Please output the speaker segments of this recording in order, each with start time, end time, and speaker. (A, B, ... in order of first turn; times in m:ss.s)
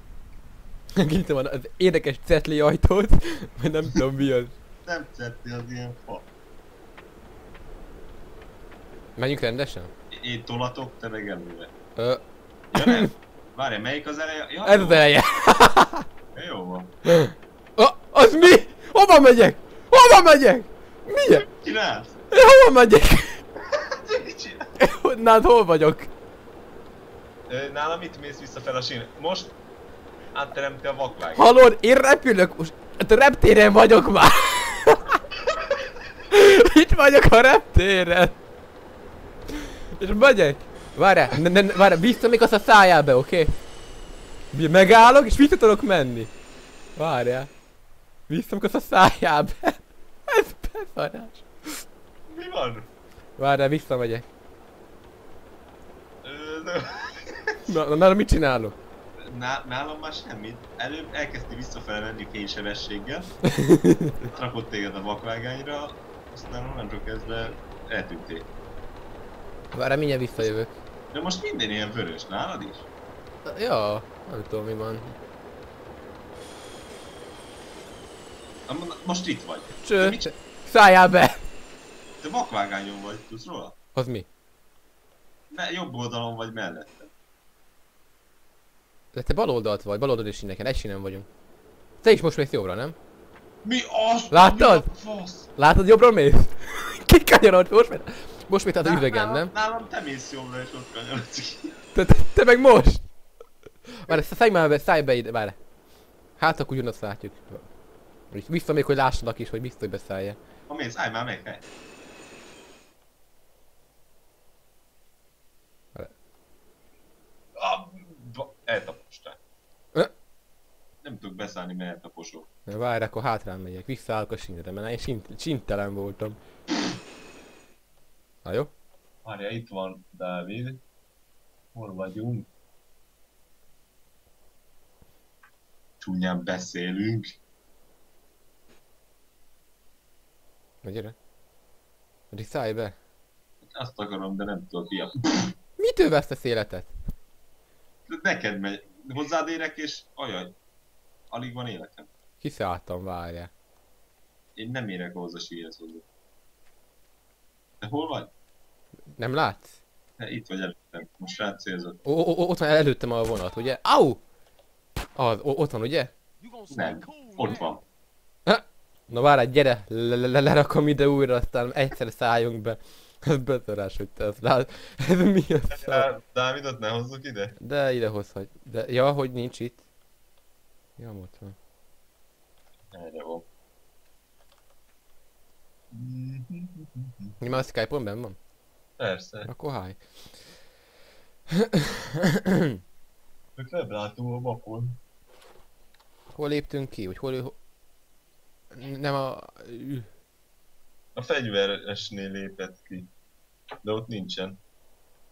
0:01.0-0:04.5 A
0:04.9-0:06.3 B
0:09.2-0:09.9 A
0:10.1-0:11.7 B
0:12.0-0:12.2 A
0:12.7-0:13.1 A
0:12.7-0:15.0 B
0:14.6-0:16.1 A
0:16.3-0:16.9 B
0:17.1-0:21.5 A
0:21.5-0:22.2 B
0:22.3-0:23.4 A
0:23.6-0:24.7 B
0:24.8-0:26.1 A
0:27.5-0:29.6 B
0:30.3-0:31.5 B
0:31.3-0:35.2 A
0:36.3-0:38.4 A
0:40.0-0:43.6 A
0:44.5-0:46.3 A
0:47.0-0:47.5 A
0:48.3-0:51.8 A
0:52.3-0:52.9 B
0:53.4-0:54.3 A
0:56.2-0:57.7 B
0:57.7-0:58.8 A
0:59.2-1:03.4 B
1:03.5-1:04.2 A
1:04.2-1:08.5 B
1:09.7-1:10.8 A
1:11.1-1:12.9 B
1:13.4-1:15.2 A
1:18.7-1:20.3 B
1:19.8-1:21.4 A
1:22.2-1:23.8 B
1:24.0-1:24.3 A
1:25.5-1:27.1 B
1:29.1-1:31.3 A
1:32.0-1:33.0 A
1:33.6-1:35.5 B
1:34.3-1:34.9 A
1:35.6-1:39.5 A
1:38.8-1:41.8 B
1:41.9-1:43.1 A
1:43.9-1:45.6 A
1:46.4-1:47.7 A
1:48.3-1:50.4 A
1:50.7-1:51.7 B
1:57.6-1:59.4 B
2:01.0-2:02.5 B
2:02.7-2:06.4 A
2:08.4-2:08.7 A
2:09.2-2:10.8 B
2:11.7-2:12.5 B
2:16.0-2:17.4 B
2:20.8-2:21.2 A
2:22.3-2:23.0 A
2:23.6-2:25.5 B
2:25.8-2:27.0 A
2:28.1-2:30.6 B
2:31.3-2:32.1 B
2:32.4-2:33.5 A
2:34.6-2:36.0 B
2:37.8-2:38.3 B
2:39.2-2:39.7 A
2:40.2-2:42.0 B
2:42.0-2:44.2 A
2:45.2-2:46.1 A
2:46.7-2:47.8 B
2:48.5-2:56.1 A
2:55.7-2:57.6 B
2:57.6-2:59.8 A
3:01.0-3:01.6 A
3:02.9-3:03.5 B
3:05.9-3:07.4 B
3:07.4-3:08.4 A
3:09.0-3:09.5 B
3:09.4-3:10.0 A
3:11.7-3:12.7 A
3:13.6-3:15.0 B
3:16.3-3:17.6 A
3:18.7-3:20.1 A
3:21.2-3:23.1 B
3:23.8-3:24.6 B